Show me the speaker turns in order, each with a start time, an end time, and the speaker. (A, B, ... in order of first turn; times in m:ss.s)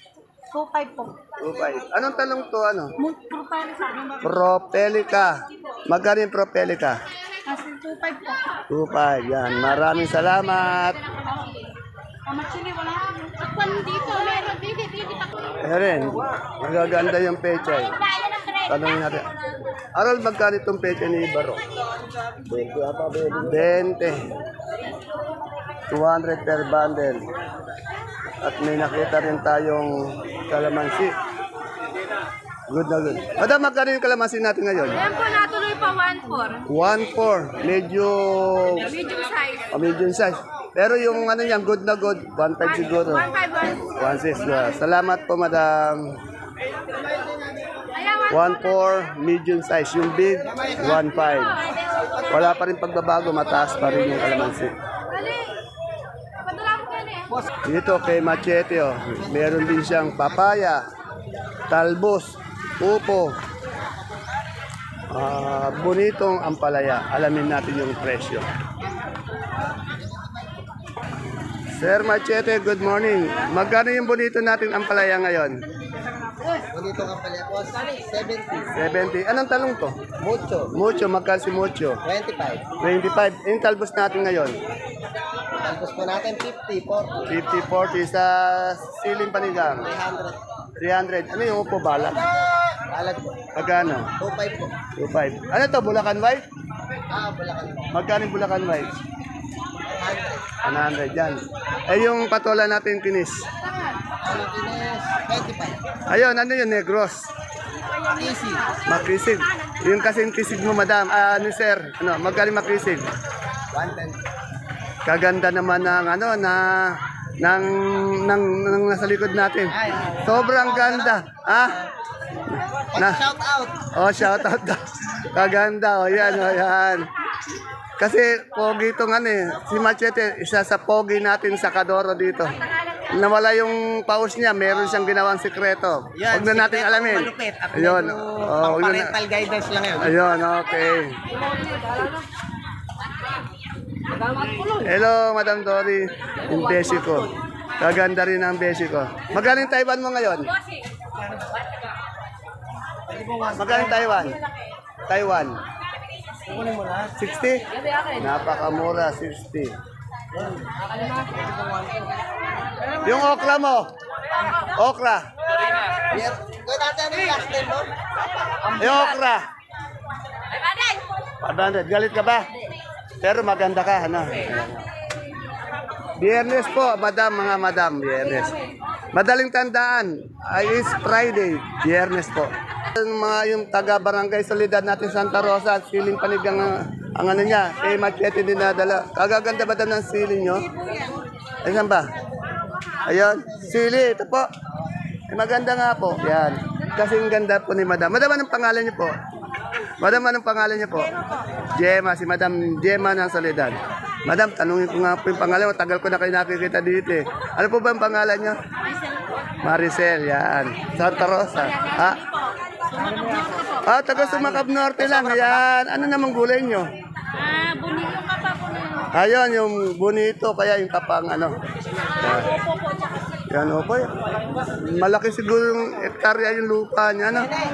0:00.5-0:01.1 A
0:01.4-0:02.9 B
0:03.0-0:04.2 A
0:04.2-0:07.0 B
0:07.4-0:08.4 A
0:08.7-0:11.0 B
0:12.3-0:15.3 A
0:15.6-0:17.9 B
0:18.0-0:18.7 A
0:18.7-0:19.3 B
0:20.0-0:21.6 B
0:22.5-0:23.3 C
0:22.5-0:24.3 B
0:25.9-0:27.2 B
0:28.4-0:31.1 B
0:32.7-0:35.1 B
0:35.0-0:36.6 A
0:36.6-0:38.9 B
0:39.0-0:39.6 A
0:39.7-0:43.3 B
0:43.3-0:43.9 A
0:43.9-0:46.2 B
0:48.0-0:48.2 A
0:48.3-0:51.6 B
0:52.3-0:54.7 B
0:55.1-0:55.4 A
0:56.4-0:57.4 A
0:57.6-1:00.8 B
1:01.7-1:03.4 B
1:05.1-1:08.5 B
1:09.9-1:10.7 C
1:11.8-1:15.6 B
1:16.6-1:18.7 C
1:18.7-1:20.0 B
1:20.2-1:20.7 C
1:20.7-1:22.0 B
1:22.0-1:22.7 C
1:22.8-1:24.6 B
1:25.6-1:27.4 C
1:27.3-1:29.9 B
1:29.8-1:30.4 C
1:30.8-1:32.2 B
1:32.8-1:33.5 C
1:33.5-1:34.1 B
1:34.2-1:34.7 C
1:35.0-1:36.4 B
1:37.1-1:37.9 C
1:37.9-1:38.9 B
1:39.8-1:40.4 C
1:40.6-1:43.5 B
1:44.2-1:45.8 C
1:46.1-1:47.3 B
1:48.1-1:48.8 C
1:48.9-1:53.1 B
1:53.7-1:54.2 C
1:55.0-2:01.8 B
1:59.8-2:01.1 C
2:02.5-2:03.2 B
2:02.9-2:03.9 C
2:04.0-2:07.1 B
2:08.0-2:12.6 B
2:13.1-2:19.1 B
2:16.2-2:20.2 C
2:20.0-2:21.2 B
2:24.8-2:30.5 B
2:33.5-2:34.4 B
2:35.1-2:35.6 B
2:37.2-2:37.6 B
2:38.2-2:39.7 B
2:43.0-2:43.9 B
2:44.8-2:45.2 B
2:46.1-2:47.9 C
2:48.8-2:49.5 B
2:51.4-2:52.5 B
2:53.2-2:54.8 B
2:56.2-2:58.5 B
2:59.1-3:10.7 B
3:10.8-3:11.1 A
3:11.6-3:12.1 B
3:13.0-3:14.4 B
3:15.3-3:19.1 B
3:20.0-3:21.1 B
3:21.8-3:28.6 B
3:28.8-3:29.2 A
3:29.6-3:32.2 B
3:31.8-3:33.8 A
3:33.8-3:36.9 B
3:37.3-3:39.1 A
3:39.1-3:41.6 B
3:42.2-3:42.5 B
3:42.3-3:43.4 A
3:43.5-3:44.1 B
3:44.8-3:47.5 B